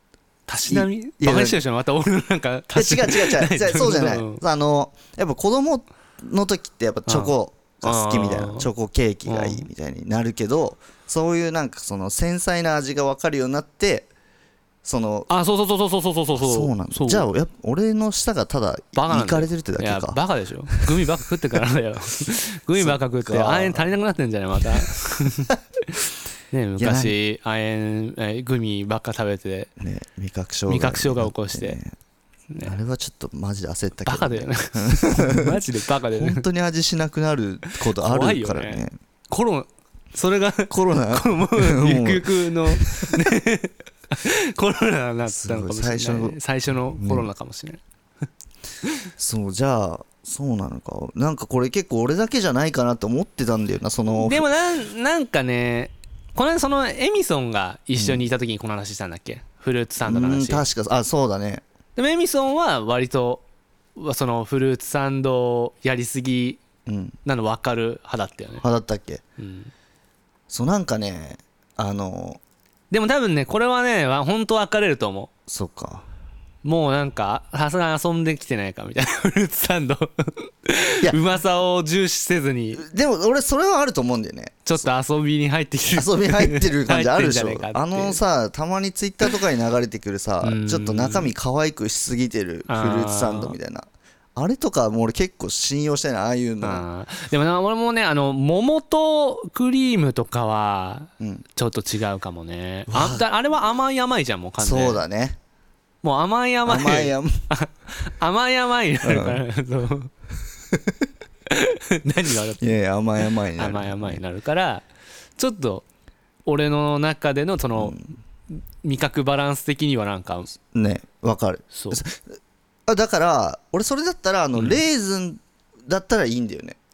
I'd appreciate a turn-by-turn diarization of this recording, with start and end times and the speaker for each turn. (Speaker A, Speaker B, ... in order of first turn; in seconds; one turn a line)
Speaker A: 0.5-4.4
Speaker B: 0.7-1.6
Speaker B: 2.7-14.1
Speaker A: 7.1-8.7
Speaker A: 9.2-9.7
Speaker B: 14.8-15.3
Speaker A: 15.3-17.3
Speaker B: 16.4-20.2
Speaker A: 18.9-29.7
Speaker B: 20.7-21.1
Speaker B: 22.8-23.9
Speaker B: 26.8-27.1
Speaker B: 29.8-31.9
Speaker A: 30.7-31.8
Speaker A: 32.5-32.8
Speaker B: 32.6-39.0
Speaker A: 34.1-36.5
Speaker A: 37.7-47.8
Speaker B: 40.7-43.2
Speaker B: 45.3-47.3
Speaker B: 49.2-54.5
Speaker A: 54.1-60.7
Speaker B: 57.9-58.3
Speaker B: 60.0-61.6
Speaker A: 62.0-63.4
Speaker A: 64.0-66.6
Speaker B: 66.9-67.2
Speaker A: 67.2-68.6
Speaker B: 68.6-69.2
Speaker A: 69.4-69.7
Speaker B: 70.5-72.4
Speaker A: 72.9-75.3
Speaker B: 75.5-76.1
Speaker A: 76.6-82.8
Speaker B: 82.8-84.9
Speaker A: 84.7-88.2
Speaker B: 85.9-96.8
Speaker A: 90.4-91.3
Speaker A: 92.7-93.5
Speaker A: 96.6-105.0
Speaker B: 101.2-101.5
Speaker B: 102.9-103.2
Speaker B: 104.6-105.4
Speaker A: 106.0-110.1
Speaker B: 106.7-107.4
Speaker B: 109.0-109.4
Speaker A: 111.5-112.8
Speaker B: 112.6-114.2
Speaker A: 113.6-114.9
Speaker A: 115.4-115.8
Speaker A: 116.5-120.5
Speaker B: 117.8-118.1
Speaker B: 120.7-122.3
Speaker A: 121.7-122.0
Speaker B: 122.9-126.8
Speaker A: 124.5-124.8